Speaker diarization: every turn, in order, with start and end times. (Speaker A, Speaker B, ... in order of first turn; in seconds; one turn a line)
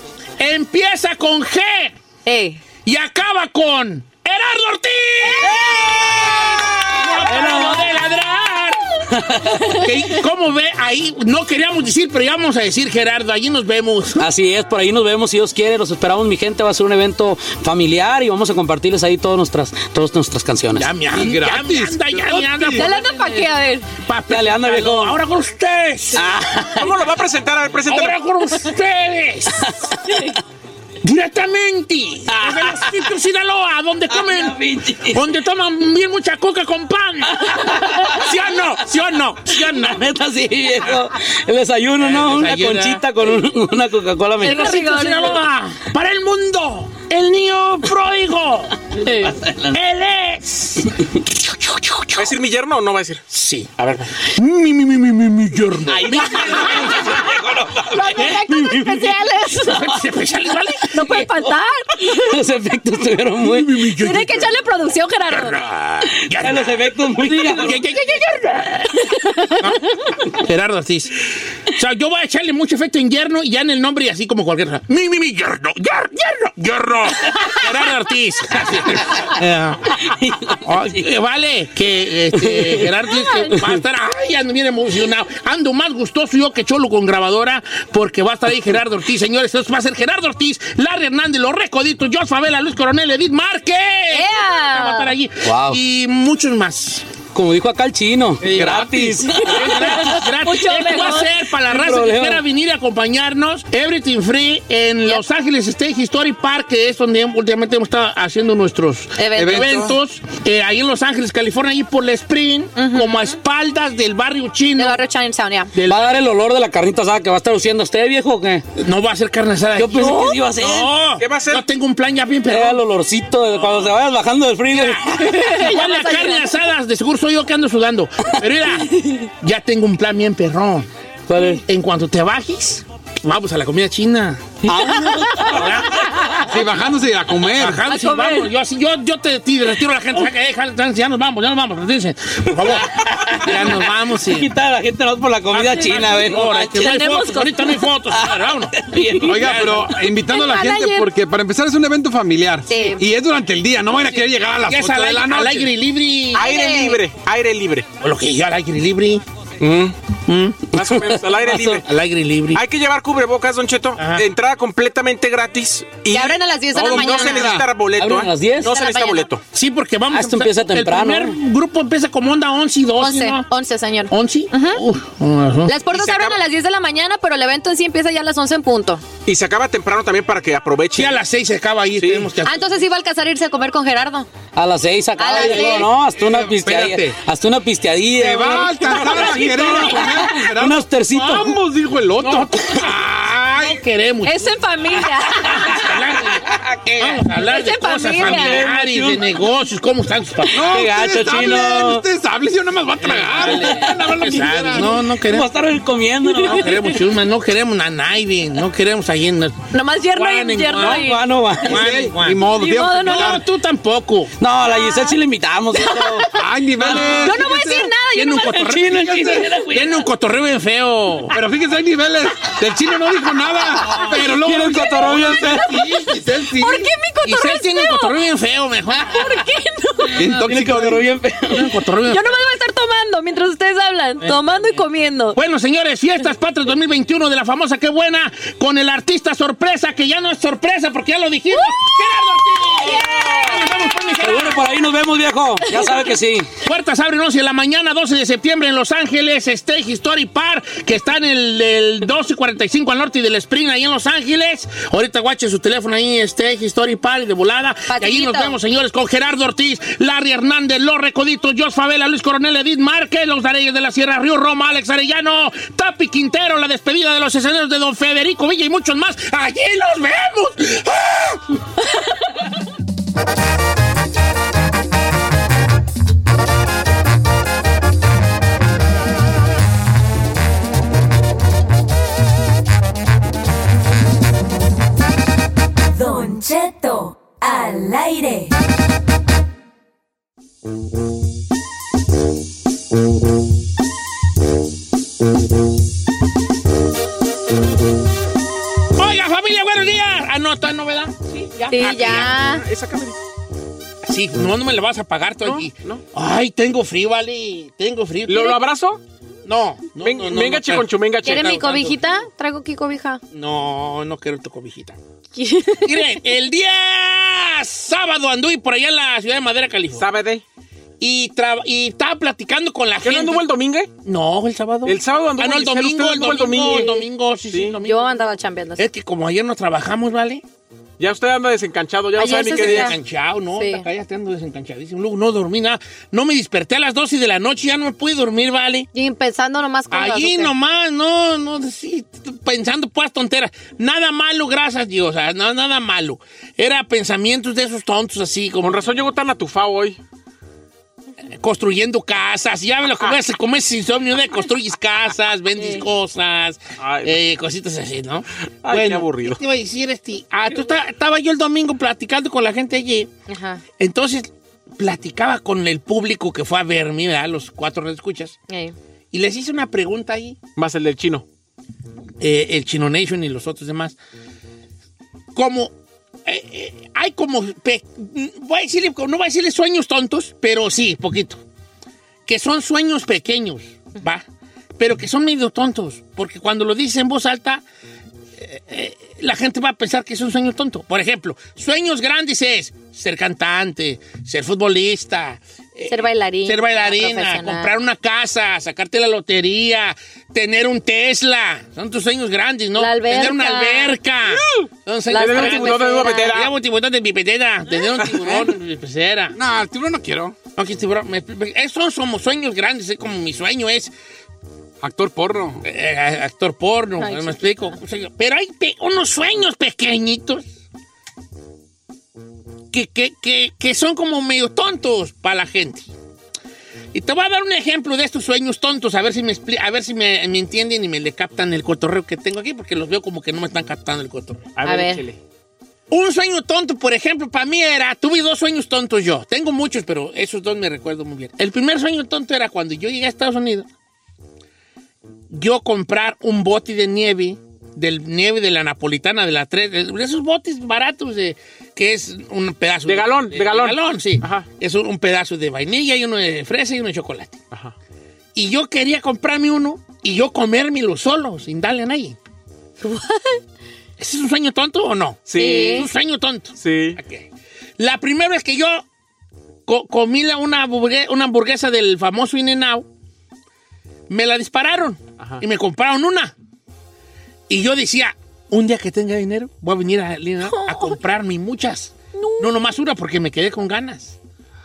Speaker A: 0.4-1.9
Speaker B: 2.2-2.6
Speaker A: 2.8-8.9
Speaker C: 7.3-7.8
Speaker C: 9.1-9.6
Speaker A: 9.7-14.2
Speaker C: 14.2-20.9
Speaker A: 20.7-23.1
Speaker D: 21.1-22.9
Speaker B: 22.7-23.9
Speaker A: 24.0-26.2
Speaker C: 24.3-25.2
Speaker C: 26.1-27.0
Speaker E: 26.8-28.2
Speaker A: 27.9-29.6
Speaker B: 30.1-30.4
Speaker A: 31.0-40.0
Speaker C: 32.3-33.1
Speaker C: 34.1-35.2
Speaker C: 39.6-44.7
Speaker A: 42.0-43.0
Speaker B: 44.4-45.4
Speaker A: 44.4-48.7
Speaker B: 49.0-49.3
Speaker C: 49.1-49.8
Speaker A: 49.7-50.9
Speaker A: 51.5-52.3
Speaker E: 52.1-53.2
Speaker A: 53.3-57.4
Speaker C: 55.9-58.0
Speaker B: 57.9-59.9
Speaker A: 57.9-61.2
Speaker B: 60.9-62.3
Speaker C: 61.2-61.5
Speaker C: 62.1-63.9
Speaker A: 63.4-64.5
Speaker B: 63.9-65.6
Speaker A: 65.3-69.0
Speaker C: 66.2-67.9
Speaker B: 69.1-69.7
Speaker A: 69.6-80.0
Speaker C: 80.1-81.0
Speaker A: 80.6-97.1
Speaker C: 82.3-83.0
Speaker C: 83.5-83.8
Speaker B: 94.1-95.1
Speaker C: 95.4-95.8
Speaker C: 97.3-100.1
Speaker D: 98.4-100.0
Speaker A: 98.5-98.9
Speaker B: 99.5-101.3
Speaker A: 99.5-115.0
Speaker C: 101.6-102.4
Speaker B: 109.2-109.7
Speaker D: 109.3-110.0
Speaker B: 112.8-113.3
Speaker B: 114.8-115.7
Speaker A: 115.7-116.0
Speaker C: 115.8-118.6
Speaker A: 118.8-122.8
Speaker C: 119.8-120.9
Speaker B: 120.0-120.4
Speaker E: 121.2-121.7
Speaker C: 122.5-125.2
Speaker A: 124.7-130.9
Speaker B: 125.2-126.5
Speaker C: 131.3-131.6
Speaker A: 131.7-136.7
Speaker C: 134.6-135.8
Speaker B: 134.9-135.5
Speaker D: 136.5-137.8
Speaker A: 137.5-144.5
Speaker B: 137.9-138.5
Speaker C: 142.7-147.1
Speaker A: 145.5-148.7
Speaker B: 145.7-146.1
Speaker B: 146.7-147.8
Speaker C: 148.1-149.7
Speaker A: 149.2-150.0
Speaker D: 149.2-155.7
Speaker B: 150.3-151.1
Speaker B: 152.7-153.0
Speaker A: 154.0-156.5
Speaker B: 156.3-157.0
Speaker E: 156.3-157.9
Speaker A: 158.0-159.2
Speaker E: 159.6-159.9
Speaker A: 160.2-160.6
Speaker E: 160.7-161.8
Speaker C: 160.8-161.8
Speaker A: 161.7-162.6
Speaker E: 162.5-169.4
Speaker A: 164.0-164.2
Speaker B: 166.1-167.6
Speaker D: 166.7-167.7
Speaker C: 167.9-168.7
Speaker B: 168.6-169.3
Speaker A: 169.5-173.4
Speaker C: 170.1-171.4
Speaker B: 173.0-174.8
Speaker A: 174.1-175.7
Speaker B: 175.7-179.0
Speaker E: 175.9-176.4
Speaker E: 179.2-181.2
Speaker A: 180.9-182.8
Speaker E: 182.0-182.3
Speaker B: 182.4-184.3
Speaker C: 184.5-191.6
Speaker B: 185.2-185.9
Speaker A: 185.4-185.7
Speaker D: 186.1-187.2
Speaker D: 188.1-193.8
Speaker B: 188.5-189.9
Speaker A: 191.1-191.5
Speaker A: 192.2-194.6
Speaker B: 194.2-195.9
Speaker A: 195.4-200.8
Speaker C: 196.5-197.2
Speaker B: 197.3-198.7
Speaker C: 198.2-199.3
Speaker D: 200.5-205.0
Speaker C: 200.6-202.1
Speaker A: 203.0-205.5
Speaker C: 203.4-207.0
Speaker A: 206.4-209.6
Speaker B: 209.7-211.3
Speaker A: 210.1-214.3
Speaker C: 210.8-211.9
Speaker D: 211.7-213.4
Speaker B: 212.5-213.4
Speaker C: 214.4-216.2
Speaker B: 214.7-215.2
Speaker B: 215.7-218.7
Speaker D: 216.3-217.9
Speaker C: 216.8-217.1
Speaker A: 218.1-221.4
Speaker C: 218.5-220.1
Speaker D: 221.3-226.9
Speaker C: 224.1-225.7
Speaker B: 224.9-228.2
Speaker A: 227.2-229.4
Speaker B: 228.9-230.4
Speaker D: 230.1-231.0
Speaker C: 230.3-231.8
Speaker A: 230.4-230.9
Speaker A: 231.5-232.4
Speaker B: 232.0-235.4
Speaker A: 234.2-234.8
Speaker A: 235.3-244.8
Speaker B: 241.5-241.8
Speaker B: 242.8-243.5
Speaker C: 244.2-246.5
Speaker B: 245.7-246.0
Speaker A: 246.6-271.4
Speaker B: 257.9-258.6
Speaker F: 285.9-288.5
Speaker A: 298.9-302.4
Speaker B: 301.7-302.6
Speaker E: 301.8-303.2
Speaker A: 304.0-308.6
Speaker E: 305.4-306.0
Speaker E: 308.3-309.0
Speaker A: 309.4-312.0
Speaker E: 310.0-311.9
Speaker B: 311.2-313.2
Speaker A: 313.3-315.0
Speaker B: 315.3-316.2
Speaker A: 315.8-320.1
Speaker E: 319.9-320.4
Speaker A: 321.0-323.5
Speaker E: 323.0-323.9
Speaker A: 324.0-328.1
Speaker E: 324.8-326.9
Speaker B: 326.7-327.0
Speaker E: 327.5-327.8
Speaker B: 327.8-328.8
Speaker A: 328.8-330.4
Speaker E: 331.0-333.0
Speaker B: 332.1-333.0
Speaker A: 332.3-338.9
Speaker B: 333.5-333.8
Speaker B: 338.9-340.5
Speaker A: 339.9-349.0
Speaker E: 348.6-350.0
Speaker A: 351.4-363.1
Speaker B: 355.6-355.9
Speaker E: 356.8-357.2
Speaker E: 358.6-359.4
Speaker B: 363.3-363.6
Speaker A: 363.8-368.4
Speaker B: 368.5-368.7
Speaker A: 369.1-370.4
Speaker E: 370.6-371.2
Speaker A: 372.2-373.9
Speaker A: 375.3-375.7
Speaker A: 376.2-381.4
Speaker A: 382.2-384.2
Speaker A: 384.8-387.6
Speaker A: 388.4-409.4
Speaker B: 395.9-397.7
Speaker B: 402.8-404.0
Speaker E: 404.5-406.5
Speaker B: 405.1-406.4
Speaker D: 408.2-408.5
Speaker D: 409.3-410.4
Speaker A: 410.6-413.9
Speaker D: 414.8-415.6
Speaker A: 415.6-420.5
Speaker B: 417.0-417.8
Speaker A: 422.7-425.9
Speaker A: 426.9-434.5
Speaker E: 434.6-435.2
Speaker B: 434.6-435.0
Speaker A: 435.9-443.7
Speaker A: 445.3-457.4
Speaker E: 452.9-454.5
Speaker A: 458.3-462.2
Speaker B: 462.8-463.4
Speaker A: 464.0-467.3
Speaker E: 465.3-465.9
Speaker B: 465.4-465.9
Speaker E: 466.6-467.0
Speaker A: 467.8-468.8
Speaker A: 469.6-472.9
Speaker A: 474.1-476.3
Speaker A: 477.5-484.1
Speaker B: 480.4-481.0
Speaker B: 482.1-482.5